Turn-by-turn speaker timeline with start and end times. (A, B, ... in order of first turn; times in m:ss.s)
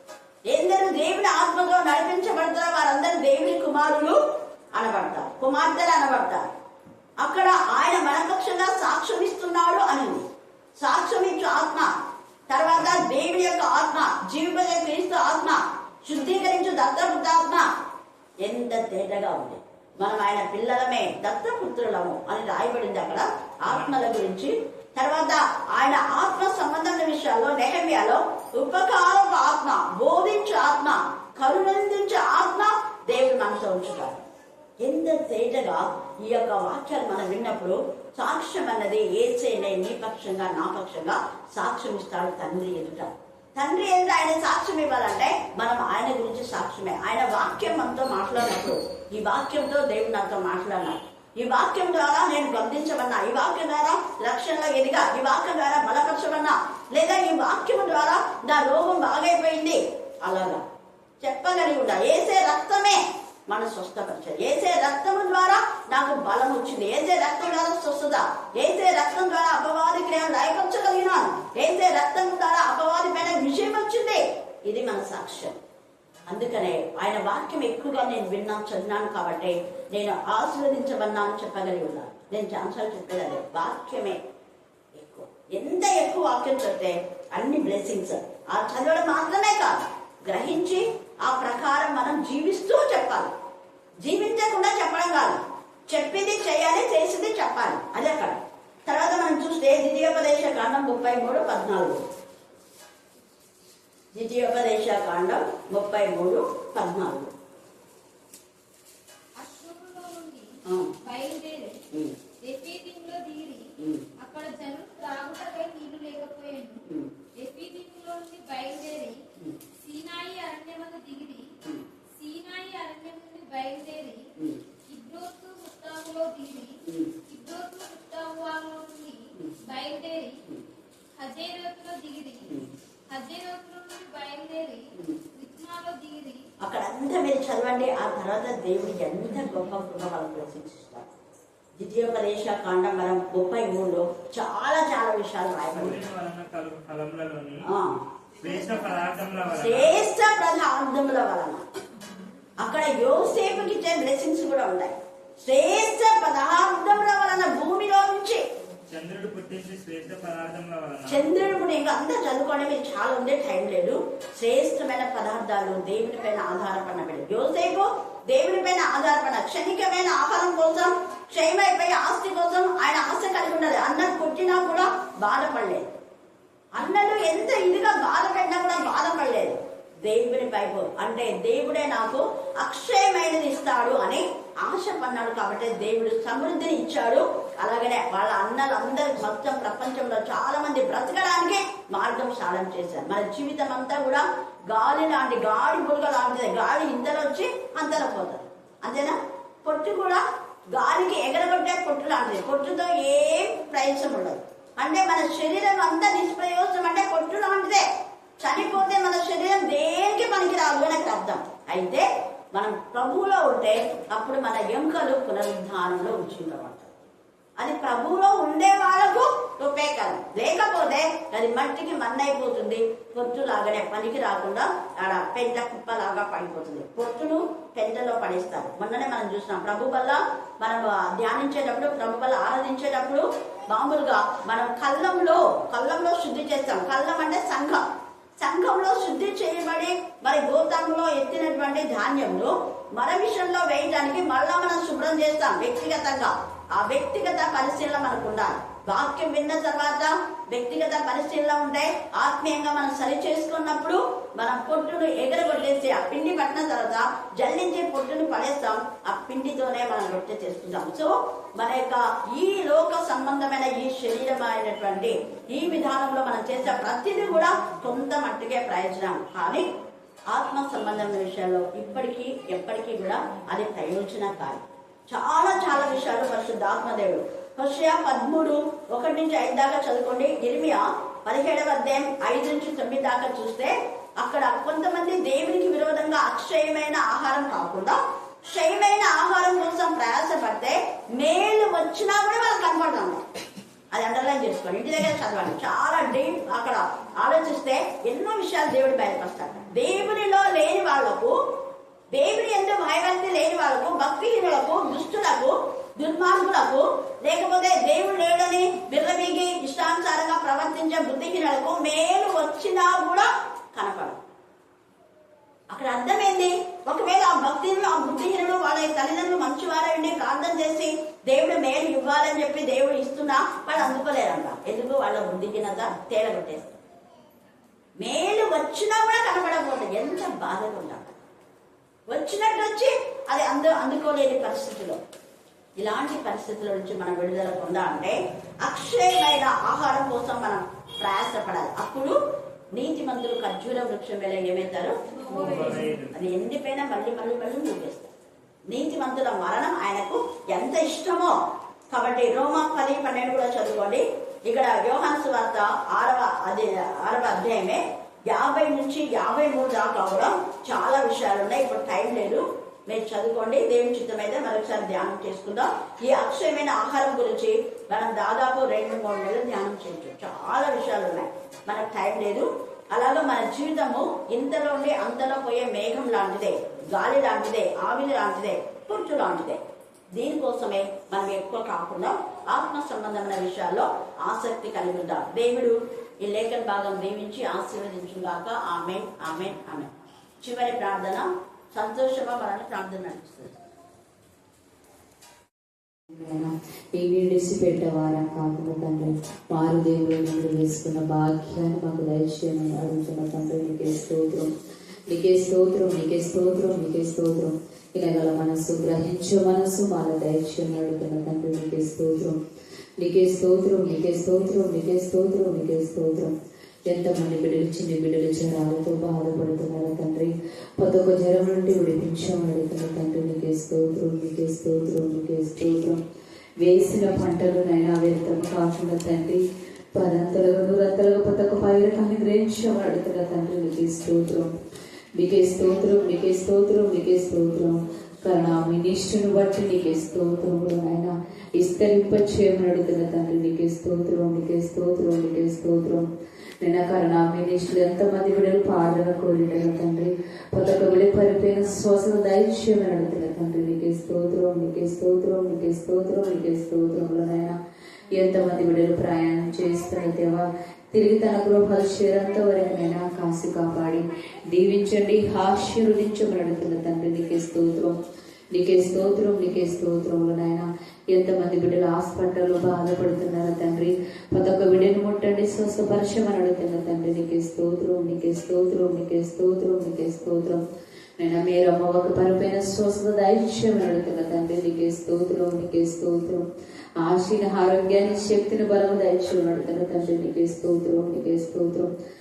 0:00.5-0:04.2 A
0:04.7-0:06.5 A
0:07.2-0:10.2 A
0:10.8-0:11.9 A
0:12.5-0:17.7 A
0:18.4-0:34.2 A
0:34.8-1:00.6 A
1:01.2-1:15.6 A
1:16.3-1:24.2 A
1:24.9-1:33.3 A
1:34.0-1:42.0 A
1:44.1-1:47.3 A
1:49.4-1:50.5 B
1:50.6-1:50.9 A
1:51.0-1:51.8 B
1:52.4-1:53.7 B
1:53.8-1:54.0 A
1:54.2-1:56.8 B
1:57.4-1:59.2 B
1:59.8-2:01.5 B
2:02.1-2:04.3 B
2:04.9-2:10.4 B
2:06.8-2:07.1 A
2:11.2-2:12.5 B
2:13.1-2:16.4 B
2:16.6-2:21.1 A
2:21.8-2:26.0 A
2:25.7-2:27.6 C
2:27.6-2:28.0 A
2:28.4-2:30.0 C
2:29.6-2:31.6 A
2:32.6-2:38.4 A
2:38.9-2:41.2 C
2:41.1-2:55.9 A
2:56.7-3:27.8 A
3:28.4-3:36.9 A
3:37.6-3:57.8 A
3:58.4-4:29.7 A
4:30.3-4:53.2 A
4:53.9-5:01.3 A
5:02.1-5:14.2 A
5:15.7-5:26.8 A
5:28.0-5:31.2 A
5:32.1-5:35.0 A
5:35.8-5:42.2 A
5:42.7-5:48.1 A
5:45.3-5:46.2 C
5:48.7-5:51.4 A
5:51.9-6:19.6 A
6:20.2-6:33.6 A
6:36.1-6:44.5 D
6:45.1-6:52.4 D
6:53.0-6:56.3 D
6:56.9-7:06.0 D
7:06.6-7:09.4 D
7:09.9-7:14.5 D
7:15.2-7:26.1 D
7:26.6-7:37.6 D
7:38.2-7:48.0 D
7:48.5-8:00.6 D
8:01.2-8:06.4 D
8:07.0-8:11.9 D